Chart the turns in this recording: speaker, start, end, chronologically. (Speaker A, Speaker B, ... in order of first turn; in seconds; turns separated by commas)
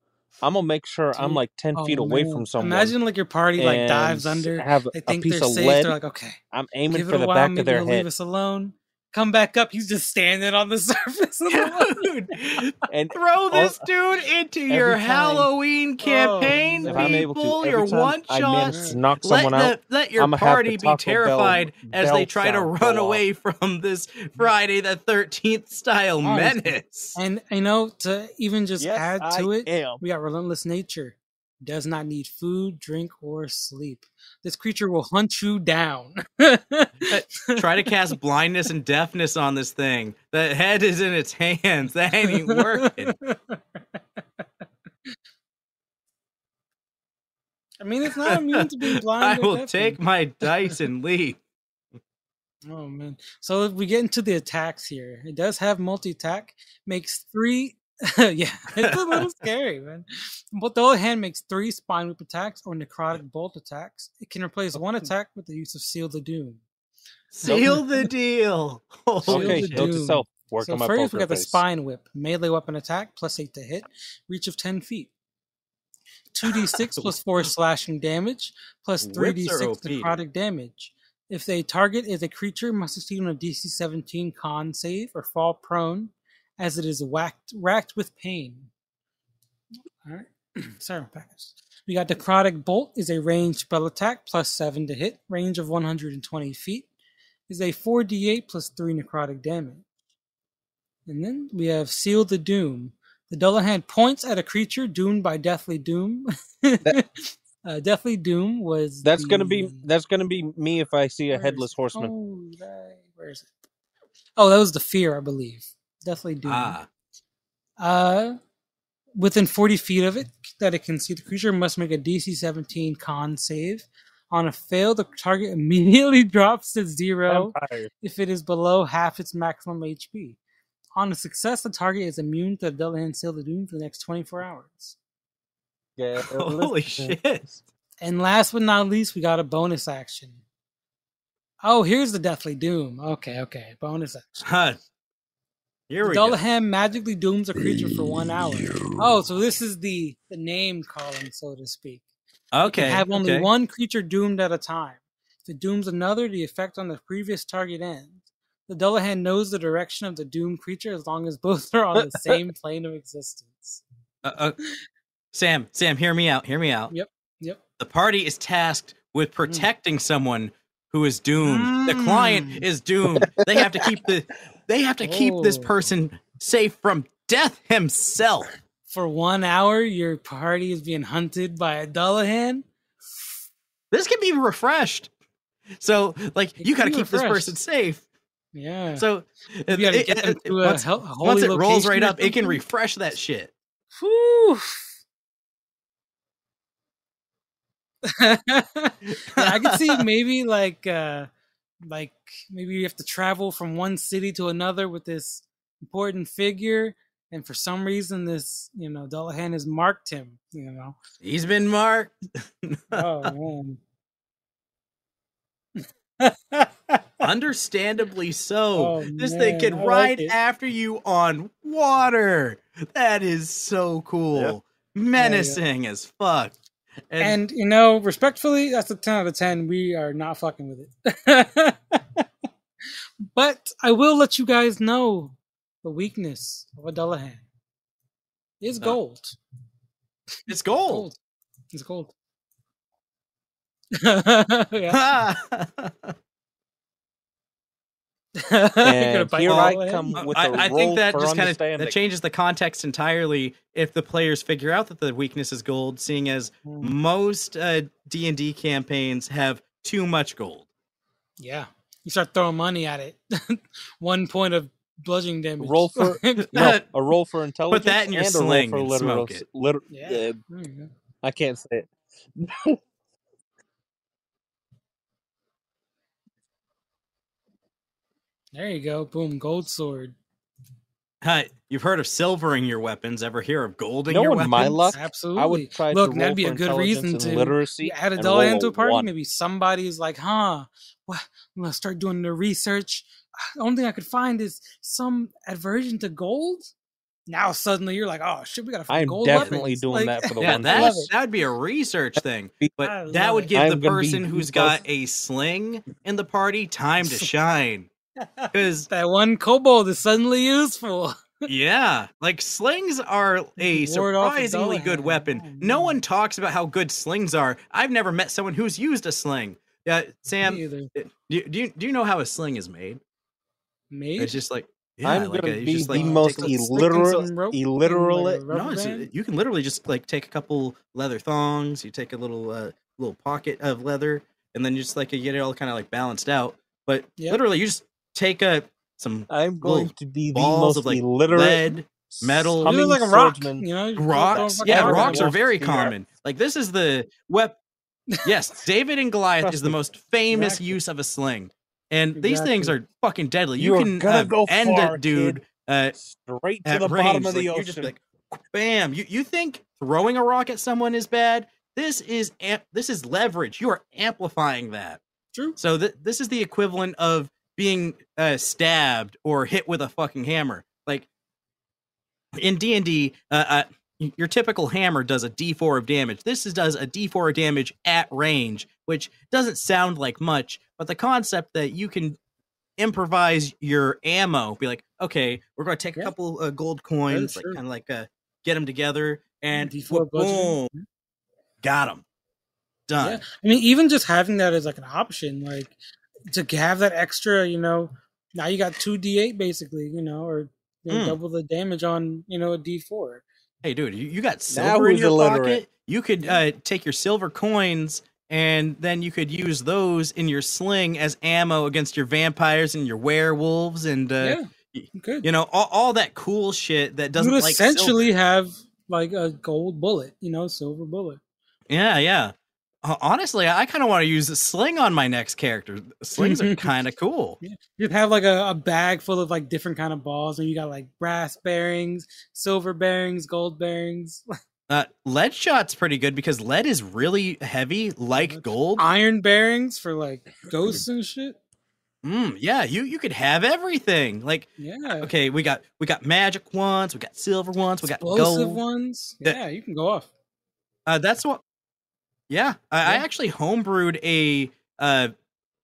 Speaker A: 0.4-2.9, Speaker B: 1.1-6.4, Speaker A: 3.6-6.0, Speaker A: 6.5-8.1, Speaker B: 6.9-12.6, Speaker C: 11.5-27.2, Speaker A: 12.9-13.8, Speaker A: 14.7-15.5, Speaker B: 16.0-17.3, Speaker A: 16.8-23.2, Speaker B: 18.7-19.0, Speaker B: 26.2-37.9, Speaker A: 28.8-30.0, Speaker C: 37.1-43.1, Speaker B: 42.2-44.0, Speaker B: 47.8-50.8, Speaker C: 48.2-48.7, Speaker C: 49.2-51.4, Speaker B: 52.7-66.6, Speaker C: 58.8-59.2, Speaker C: 67.3-69.9, Speaker B: 67.4-68.1, Speaker A: 67.5-67.7, Speaker B: 69.3-75.1, Speaker A: 69.3-71.6, Speaker B: 76.3-88.7, Speaker C: 76.5-77.1, Speaker C: 79.0-80.2, Speaker B: 90.0-96.9, Speaker B: 97.5-99.8, Speaker B: 101.1-109.8, Speaker A: 109.0-112.1, Speaker B: 111.3-113.5, Speaker B: 114.4-116.8, Speaker C: 116.5-116.9, Speaker B: 117.8-118.4, Speaker B: 119.2-130.4, Speaker A: 127.3-127.9, Speaker B: 130.9-134.9, Speaker A: 136.0-137.2, Speaker C: 136.3-137.5, Speaker B: 138.0-140.4, Speaker B: 141.6-144.5, Speaker C: 144.4-144.8, Speaker C: 145.9-146.4, Speaker B: 146.0-152.1, Speaker C: 152.5-153.5, Speaker B: 152.6-163.8, Speaker A: 161.9-162.4, Speaker C: 164.2-164.6, Speaker C: 165.3-166.9, Speaker B: 166.9-167.6, Speaker C: 167.8-178.5, Speaker B: 171.4-172.6, Speaker A: 173.1-173.9, Speaker B: 175.0-175.8, Speaker B: 178.9-182.7, Speaker C: 183.9-185.1, Speaker C: 185.8-188.0, Speaker B: 186.6-187.6, Speaker B: 188.5-189.1, Speaker C: 188.9-193.5, Speaker B: 189.7-192.6, Speaker B: 194.0-194.8, Speaker B: 198.0-201.3, Speaker C: 199.1-200.0, Speaker B: 201.8-211.0, Speaker C: 211.2-213.3, Speaker B: 212.9-213.8, Speaker B: 215.8-217.1, Speaker C: 217.2-226.6, Speaker B: 218.8-220.3, Speaker B: 225.2-225.6, Speaker C: 227.1-227.4, Speaker B: 227.2-232.2, Speaker B: 233.3-237.4, Speaker B: 238.6-239.4, Speaker B: 240.4-241.2, Speaker C: 240.5-241.1, Speaker B: 241.7-242.1, Speaker B: 243.9-245.0, Speaker C: 244.9-246.1, Speaker B: 248.3-250.7, Speaker A: 248.8-251.9, Speaker C: 249.5-260.7, Speaker B: 256.6-256.9, Speaker B: 261.4-266.7, Speaker A: 265.6-270.4, Speaker C: 266.5-266.8, Speaker C: 267.7-269.4, Speaker B: 269.9-270.9, Speaker A: 271.2-272.8, Speaker B: 278.5-280.1, Speaker C: 281.2-285.0, Speaker A: 284.1-289.1, Speaker B: 284.9-296.7, Speaker B: 297.3-301.1, Speaker A: 298.9-301.1, Speaker C: 299.3-299.6, Speaker C: 300.4-307.9, Speaker B: 302.8-303.5, Speaker A: 303.5-304.8, Speaker B: 307.0-307.3, Speaker B: 308.2-311.5, Speaker C: 308.5-308.9, Speaker C: 311.5-323.0, Speaker B: 313.6-316.0, Speaker B: 320.4-320.9, Speaker B: 323.9-324.4, Speaker C: 324.2-326.8, Speaker A: 325.0-328.4, Speaker B: 325.8-329.1, Speaker C: 328.5-342.7, Speaker A: 339.3-343.6, Speaker B: 342.6-345.3, Speaker C: 344.0-347.6, Speaker A: 344.3-345.9, Speaker C: 348.2-355.9, Speaker A: 349.4-349.7, Speaker B: 350.3-350.7, Speaker B: 352.1-352.8, Speaker A: 353.6-355.4, Speaker A: 355.9-357.9, Speaker C: 356.6-365.0, Speaker C: 365.6-371.1, Speaker C: 372.3-382.2, Speaker C: 382.8-390.7, Speaker B: 387.1-387.6, Speaker B: 389.5-390.8, Speaker C: 391.6-392.0, Speaker C: 392.9-393.2, Speaker B: 393.0-395.8, Speaker B: 396.3-403.2, Speaker C: 400.9-401.2, Speaker C: 403.6-418.1, Speaker A: 404.5-405.6, Speaker B: 414.2-415.3, Speaker B: 417.1-421.2, Speaker C: 421.7-427.4, Speaker B: 426.2-426.7, Speaker B: 427.4-434.2, Speaker C: 434.7-438.8, Speaker B: 438.2-441.4, Speaker C: 442.0-448.6, Speaker B: 444.6-445.1, Speaker B: 447.9-450.1, Speaker C: 450.9-451.4, Speaker C: 452.3-455.1